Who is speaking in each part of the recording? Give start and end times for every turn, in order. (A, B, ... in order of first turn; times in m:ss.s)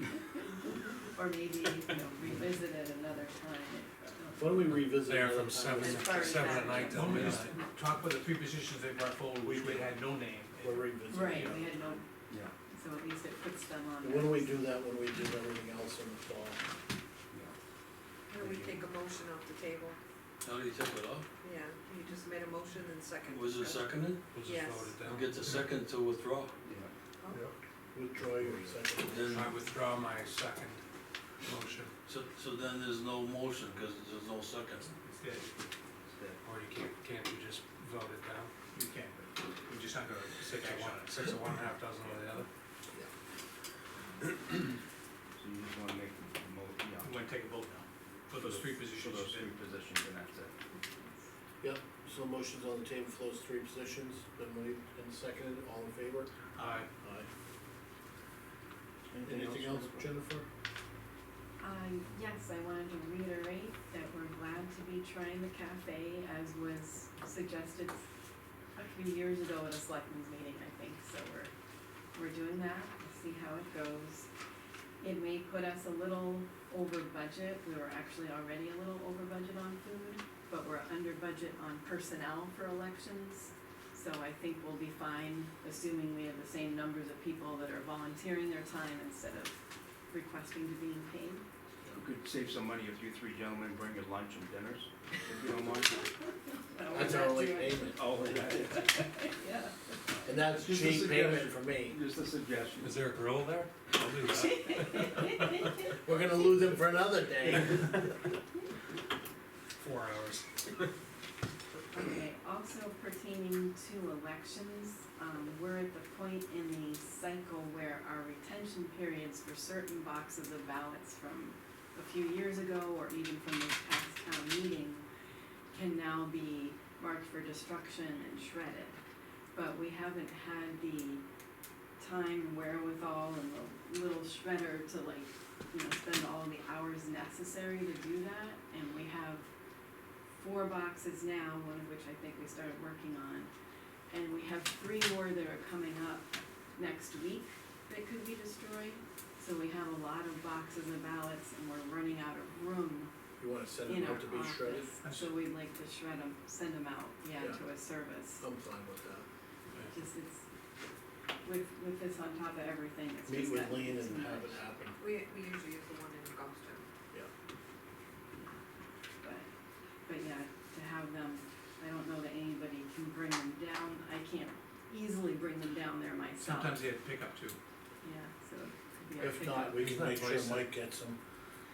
0:00.4-0:04.7 A
0:04.4-0:07.0 B
0:04.9-0:07.6 C
0:05.8-0:07.6 A
0:06.9-0:11.8 D
0:09.4-0:10.0 B
0:10.6-0:11.8 B
0:11.1-0:12.1 A
0:12.7-0:14.6 A
0:14.0-0:16.6 B
0:18.3-0:20.0 E
0:18.4-0:18.7 F
0:20.4-0:21.3 G
0:21.4-0:23.9 E
0:23.2-0:24.2 G
0:24.3-0:25.5 C
0:24.4-0:25.0 E
0:25.0-0:26.5 G
0:26.6-0:26.9 F
0:27.3-0:29.5 B
0:28.2-0:28.8 F
0:29.0-0:29.5 G
0:29.3-0:30.8 C
0:31.4-0:31.9 C
0:32.0-0:34.9 G
0:34.9-0:35.5 D
0:36.0-0:36.4 F
0:36.4-0:38.5 C
0:38.7-0:41.4 D
0:40.4-0:42.5 C
0:45.4-0:47.1 F
0:47.0-0:49.6 D
0:48.4-0:50.5 F
0:50.7-0:51.2 A
0:51.6-0:56.3 B
0:56.6-0:56.9 D
0:57.0-0:57.3 B
0:59.2-1:00.1 F
0:59.2-1:00.5 B
1:01.6-1:08.1 A
1:08.8-1:11.5 A
1:12.1-1:14.3 A
1:15.0-1:29.6 A
1:30.1-1:31.4 A
1:32.0-1:36.1 F
1:36.7-1:38.0 A
1:36.9-1:38.3 B
1:37.9-1:39.0 F
1:38.6-1:39.7 A
1:40.2-1:42.0 B
1:40.6-1:43.0 F
1:42.8-1:45.7 C
1:44.3-1:45.9 A
1:46.0-1:48.0 B
1:49.8-1:50.5 C
1:51.9-2:05.0 A
2:05.7-2:09.0 A
2:09.6-2:11.2 A
2:12.0-2:19.5 A
2:20.4-2:23.5 A
2:24.1-2:33.1 A
2:33.4-2:34.9 B
2:33.8-2:38.4 A
2:35.0-2:35.3 D
2:37.4-2:37.6 B
2:38.4-2:39.2 B
2:39.9-2:40.4 A
2:41.4-2:44.6 A
2:43.3-2:45.0 B
2:45.0-2:46.8 E
2:49.2-2:49.5 A
2:50.1-2:56.9 A
2:56.4-2:57.6 D
2:58.0-3:00.0 A
2:59.2-3:01.2 B
2:59.8-3:00.7 C